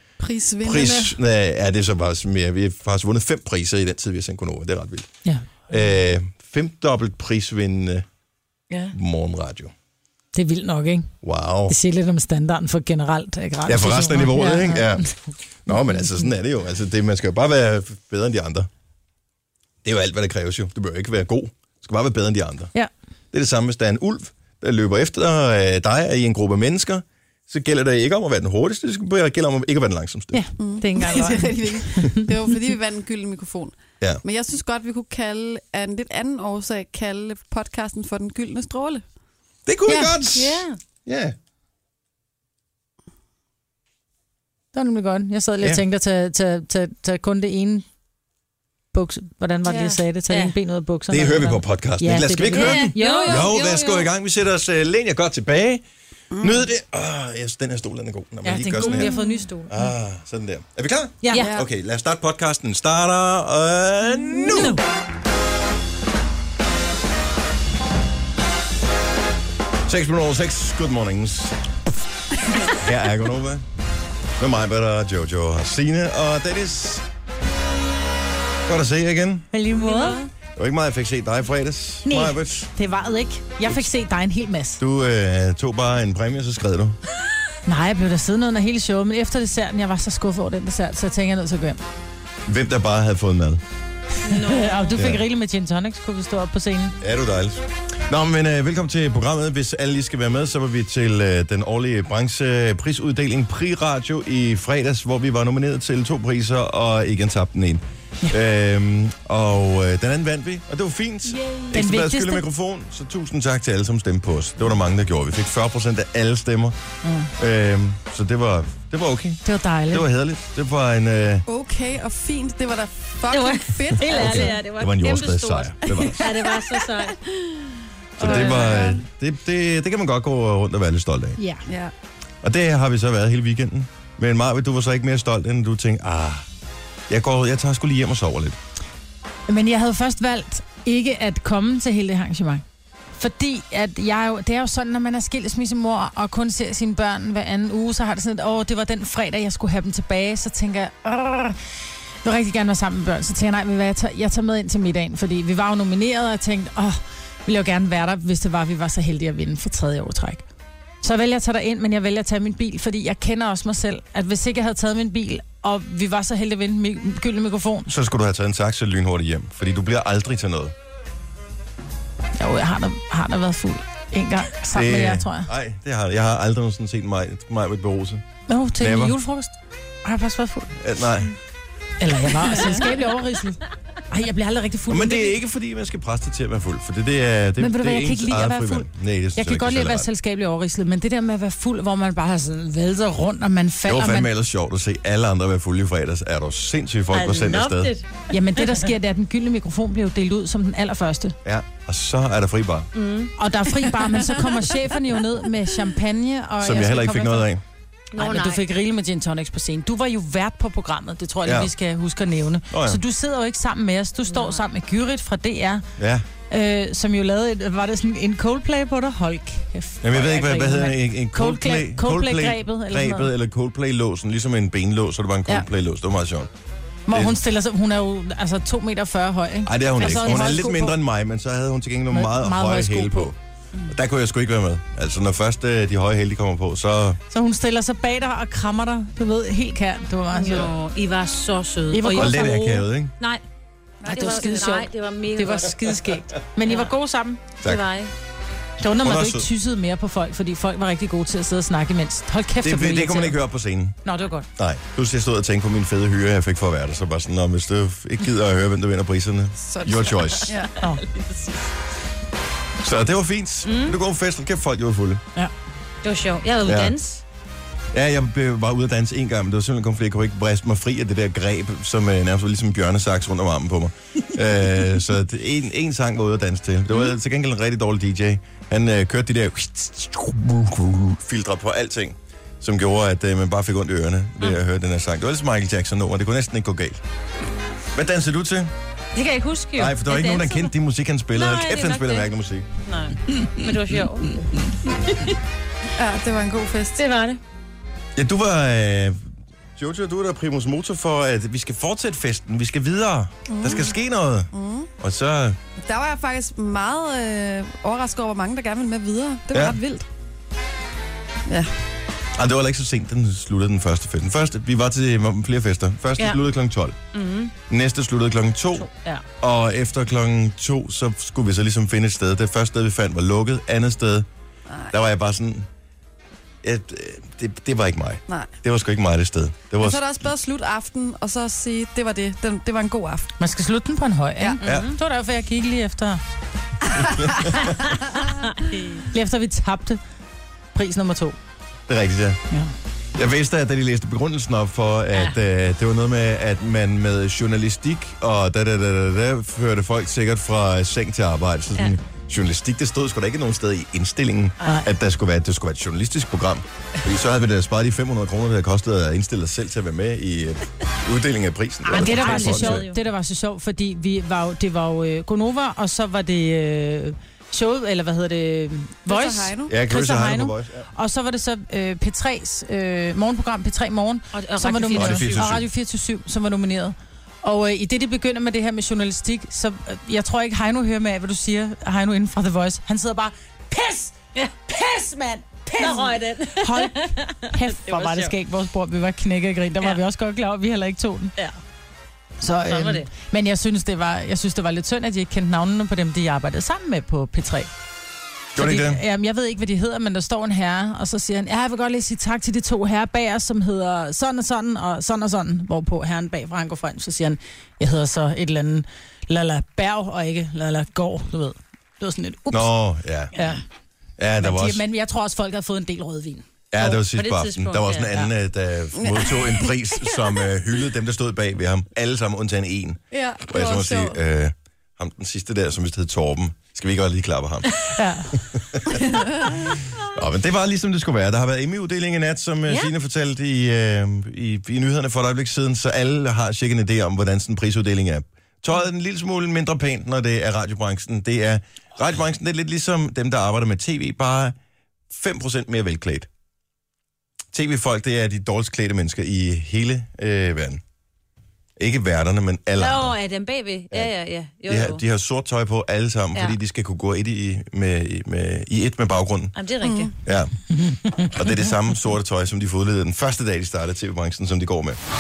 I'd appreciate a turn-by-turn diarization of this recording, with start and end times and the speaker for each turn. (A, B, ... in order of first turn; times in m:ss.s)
0:00.2-0:01.2 A
0:00.6-0:05.1 B
0:05.2-0:05.6 C
0:05.7-0:08.0 B
0:08.9-0:09.7 B
0:10.4-0:11.1 C
0:11.2-0:11.8 B
0:11.7-0:15.0 C
0:13.7-0:18.7 B
0:19.8-0:22.7 B
0:23.3-0:30.4 B
0:30.3-0:32.3 C
0:30.6-0:39.0 A
0:39.7-0:41.4 B
0:39.9-0:40.2 C
0:40.3-0:40.8 D
0:44.7-0:47.8 C
0:48.9-0:53.5 C
0:49.6-0:50.6 D
0:51.1-0:55.8 B
0:52.5-0:54.1 D
0:56.3-0:56.6 A
0:56.4-0:59.1 B
0:58.4-0:59.7 C
0:58.8-0:59.5 D
0:59.7-1:04.8 B
1:01.3-1:01.6 D
1:01.4-1:01.7 A
1:04.5-1:04.8 D
1:09.8-1:11.6 B
1:12.7-1:13.6 B
1:14.4-1:17.1 B
1:18.7-1:19.5 B
1:19.5-1:20.2 C
1:19.7-1:20.3 D
1:20.6-1:22.7 B
1:22.1-1:24.8 C
1:23.6-1:23.9 B
1:24.8-1:27.0 B
1:27.7-1:31.8 C
1:32.4-1:33.6 B
1:34.2-1:37.0 C
1:34.2-1:35.0 D
1:35.0-1:35.2 B
1:37.0-1:56.8 B
1:51.4-1:52.4 C
1:57.0-1:57.3 C
1:57.4-2:01.4 B
1:59.4-2:00.1 C
2:01.5-2:04.5 A
2:03.3-2:07.2 D
2:04.0-2:06.3 B
2:04.2-2:04.6 C
2:08.2-2:11.4 B
2:08.2-2:09.0 D
2:08.2-2:08.9 A
2:11.4-2:11.7 C
2:11.7-2:11.9 A
2:12.4-2:16.5 B
2:17.1-2:18.6 B
2:19.5-2:22.6 C
2:23.2-2:31.6 C
2:32.2-2:40.4 C
2:41.0-2:47.9 C
2:47.9-2:50.7 B
2:52.4-2:55.5 C
2:54.7-2:58.2 B
2:58.5-2:59.5 C
2:58.8-2:59.2 B
3:00.0-3:00.7 C
3:00.8-3:01.3 B
3:02.0-3:05.4 C
3:04.9-3:10.1 B
3:07.6-3:14.3 C
3:13.9-3:17.9 B
3:17.1-3:18.8 D
3:18.3-3:21.4 C
3:21.4-3:22.9 B
3:22.9-3:23.3 D
3:23.4-3:27.5 C
3:26.6-3:27.6 B
3:28.1-3:28.6 D
3:28.2-3:35.8 C
3:31.4-3:31.7 B
3:32.7-3:33.0 B
3:34.3-3:34.6 D
3:36.0-3:36.2 B
3:36.5-3:43.3 C
3:40.0-3:46.5 B
3:47.1-3:51.0 C
3:47.1-3:47.4 B
3:49.6-3:53.4 B
3:52.1-3:53.3 C
3:53.9-3:57.2 B
3:57.3-4:00.7 C
4:00.3-4:03.4 D
4:01.9-4:02.7 C
4:02.1-4:03.1 B
4:04.0-4:04.5 A
4:04.0-4:07.4 C
4:04.0-4:05.9 D
4:06.7-4:06.9 D
4:07.6-4:08.1 D
4:08.8-4:13.4 C
4:09.0-4:09.5 B
4:12.6-4:14.0 B
4:14.0-4:14.5 C
4:14.6-4:20.6 B
4:19.7-4:20.8 A
4:21.1-4:21.5 D
4:22.8-4:25.2 B
4:23.6-4:24.0 D
4:26.0-4:27.2 D
4:26.6-4:27.0 B
4:27.9-4:47.0 B
4:47.9-4:48.7 B
4:49.2-4:50.7 D
4:49.8-4:52.7 B
4:51.3-4:52.3 D
4:52.8-4:54.5 D
4:56.0-4:57.0 A
4:57.0-4:57.4 D
4:58.2-4:59.2 B
4:59.8-5:05.6 B
5:03.5-5:03.9 A
5:04.5-5:04.9 A
5:05.8-5:10.1 A
5:09.5-5:09.8 B
5:12.3-5:17.0 B
5:17.1-5:17.5 D
5:17.7-5:18.9 B
5:18.8-5:19.2 D
5:19.4-5:24.3 B
5:24.9-5:25.7 B
5:26.6-5:30.0 B
5:29.8-5:33.3 A
5:33.4-5:36.2 C
5:34.6-5:35.0 D
5:34.6-5:35.0 B
5:38.4-5:39.1 D
5:39.1-5:40.0 C
5:40.7-5:41.4 C
5:41.9-5:42.4 B
5:43.2-6:02.9 B
6:01.9-6:03.0 D
6:01.9-6:24.2 C
6:09.1-6:09.8 A
6:09.7-6:10.9 B
6:14.3-6:15.5 D
6:15.0-6:15.7 B
6:24.4-6:24.7 D
6:24.7-6:31.4 C
6:25.7-6:28.3 D
6:32.4-6:37.7 C
6:32.7-6:33.1 D
6:38.6-6:39.0 B
6:38.6-6:52.7 C
6:52.5-6:53.3 B
6:53.3-6:53.6 C
6:54.2-6:54.8 B
6:54.4-6:56.4 C
6:56.7-7:07.8 B
6:56.8-6:58.3 D
6:59.0-6:59.7 A
7:03.1-7:04.2 A
7:08.0-7:08.3 C
7:08.3-7:24.6 B
7:09.0-7:09.4 A
7:25.1-7:26.3 B
7:27.5-7:30.8 B
7:31.8-7:33.2 B
7:32.8-7:35.0 D
7:34.7-7:39.6 B
7:39.6-7:40.1 D
7:39.8-7:40.1 A
7:40.2-7:40.5 B
7:41.1-7:45.0 B